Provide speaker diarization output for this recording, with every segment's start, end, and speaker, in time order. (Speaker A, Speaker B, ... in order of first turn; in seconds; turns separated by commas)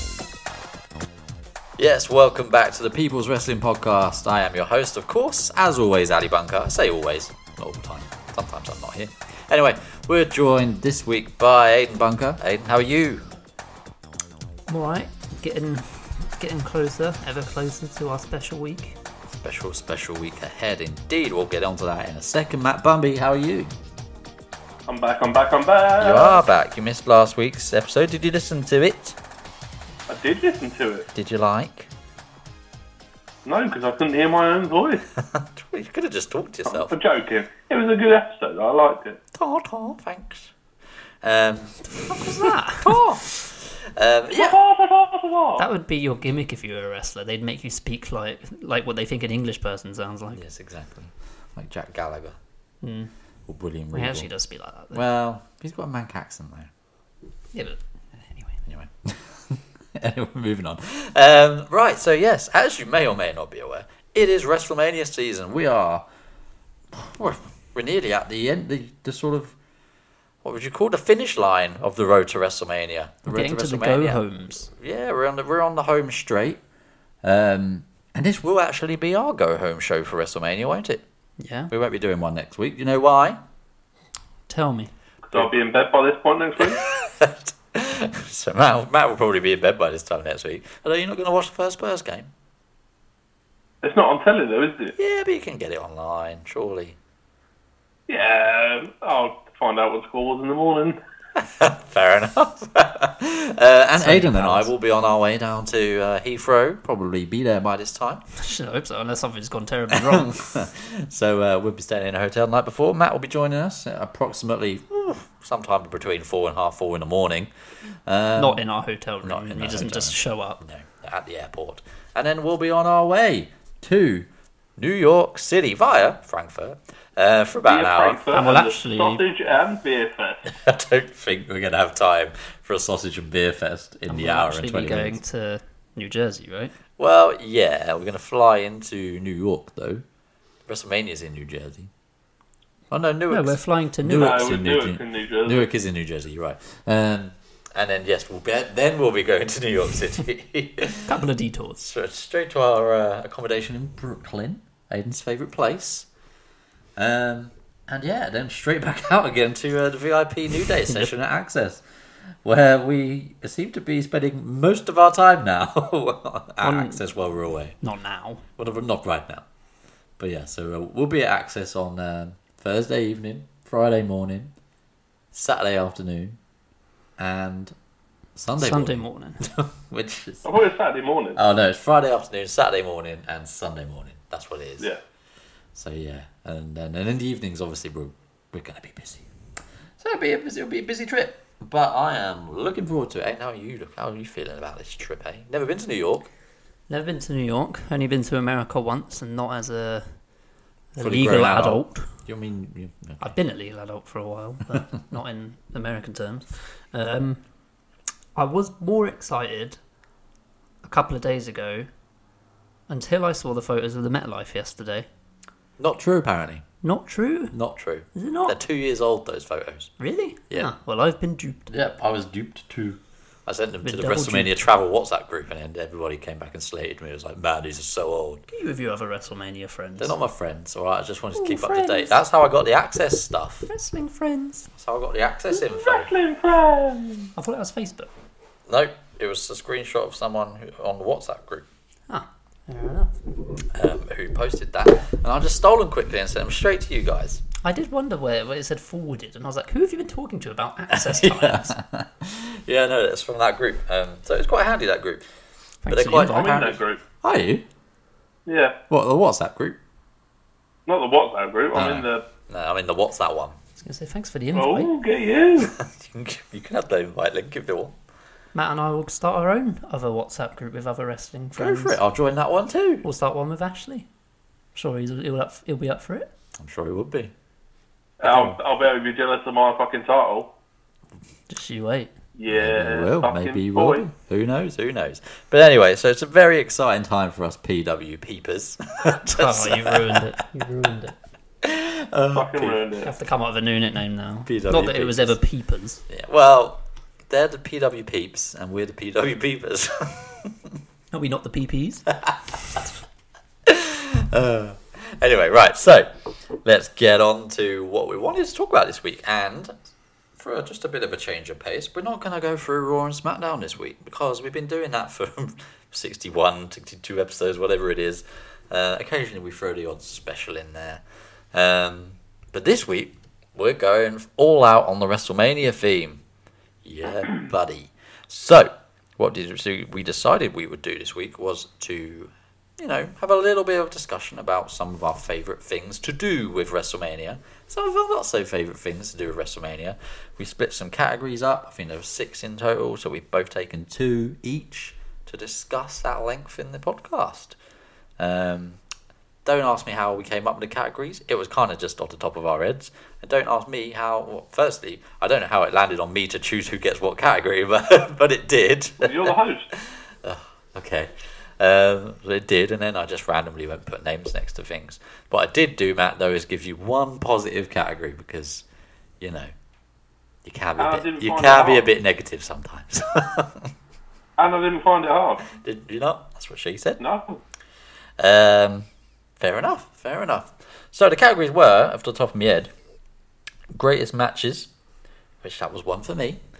Speaker A: 1.8-13.2, Speaker B: 14.7-19.0, Speaker A: 19.4-23.7, Speaker C: 24.9-26.4, Speaker A: 26.0-29.2, Speaker C: 30.1-31.1, Speaker A: 31.1-31.9, Speaker C: 33.4-35.0, Speaker A: 35.2-36.9, Speaker C: 36.6-39.2, Speaker A: 39.3-40.5, Speaker A: 41.2-44.6, Speaker B: 41.9-43.0, Speaker C: 44.3-45.6, Speaker B: 45.6-50.4, Speaker A: 50.3-52.4, Speaker B: 52.8-53.1, Speaker A: 53.5-54.3, Speaker B: 53.9-55.0, Speaker A: 54.9-56.7, Speaker B: 57.5-58.6, Speaker A: 58.6-66.0, Speaker A: 66.9-69.5, Speaker A: 70.4-76.6, Speaker B: 73.2-74.7, Speaker A: 77.2-81.0, Speaker B: 81.4-81.7, Speaker A: 81.7-83.4, Speaker B: 84.5-84.9, Speaker C: 85.2-86.8, Speaker A: 86.6-92.3, Speaker C: 93.8-94.9, Speaker A: 95.0-97.0, Speaker C: 98.1-101.0, Speaker A: 101.3-108.2, Speaker B: 104.0-104.7, Speaker B: 108.3-110.5, Speaker A: 109.9-117.5, Speaker A: 118.0-118.6, Speaker B: 118.3-120.6, Speaker A: 119.2-128.2, Speaker C: 127.6-130.4, Speaker B: 128.3-129.2, Speaker A: 130.4-135.2, Speaker B: 134.1-136.7, Speaker A: 137.0-140.0, Speaker A: 140.7-141.9, Speaker A: 142.9-151.2, Speaker B: 143.3-144.5, Speaker C: 144.1-145.7, Speaker B: 151.1-151.8, Speaker A: 151.8-156.1, Speaker A: 156.9-161.8, Speaker B: 160.8-161.1, Speaker A: 162.4-167.8, Speaker B: 166.6-167.0, Speaker B: 167.8-168.4, Speaker A: 168.6-169.4, Speaker A: 170.2-174.5, Speaker A: 175.3-176.3, Speaker A: 177.2-177.7, Speaker A: 178.3-180.4, Speaker B: 178.6-179.5, Speaker C: 180.4-181.4, Speaker A: 181.3-184.9, Speaker A: 185.7-189.2, Speaker A: 190.0-196.3, Speaker B: 196.9-200.2, Speaker B: 200.9-202.1, Speaker A: 201.0-203.3, Speaker B: 203.2-207.4, Speaker B: 208.3-209.8, Speaker B: 210.8-211.9, Speaker B: 212.9-215.1, Speaker A: 215.8-216.6, Speaker B: 216.8-217.5, Speaker A: 217.5-219.9, Speaker B: 218.1-218.6, Speaker B: 220.0-221.7, Speaker A: 221.7-228.4, Speaker B: 223.8-224.6, Speaker B: 228.5-230.1, Speaker A: 230.0-233.7, Speaker B: 231.3-232.2, Speaker B: 233.7-234.7, Speaker A: 234.7-236.1, Speaker C: 235.5-237.3, Speaker B: 237.3-238.1, Speaker A: 238.7-241.7, Speaker B: 242.1-243.2, Speaker A: 243.7-247.4, Speaker B: 247.6-251.8, Speaker A: 250.9-255.2, Speaker B: 255.8-256.6, Speaker A: 255.9-257.6, Speaker C: 256.3-257.0, Speaker C: 258.4-258.8, Speaker A: 258.9-259.8, Speaker C: 260.9-262.2, Speaker A: 261.7-263.6, Speaker B: 263.8-264.9, Speaker C: 264.5-265.7, Speaker A: 265.6-267.9, Speaker B: 268.5-272.0, Speaker A: 271.6-273.0, Speaker B: 273.0-274.1, Speaker B: 274.7-276.3, Speaker A: 276.6-277.3, Speaker C: 278.2-280.5, Speaker A: 278.2-278.6, Speaker B: 281.5-282.1, Speaker C: 282.4-284.1, Speaker A: 282.5-290.4, Speaker B: 289.2-291.1, Speaker A: 291.6-292.8, Speaker C: 292.3-293.1, Speaker B: 293.0-296.0, Speaker A: 294.4-295.4, Speaker A: 296.1-300.7, Speaker B: 301.1-302.8, Speaker A: 302.2-302.9, Speaker A: 303.6-306.1, Speaker A: 306.6-309.8, Speaker A: 310.4-321.0, Speaker A: 321.5-326.2, Speaker A: 326.8-347.6, Speaker A: 348.2-348.8, Speaker A: 349.4-368.6, Speaker C: 359.0-359.7, Speaker A: 369.2-369.5, Speaker A: 370.4-373.7, Speaker C: 370.8-371.9, Speaker C: 374.4-375.4, Speaker A: 375.5-377.0, Speaker C: 377.0-377.4, Speaker A: 378.2-378.9, Speaker A: 379.4-382.7, Speaker A: 383.7-384.7, Speaker A: 385.4-386.4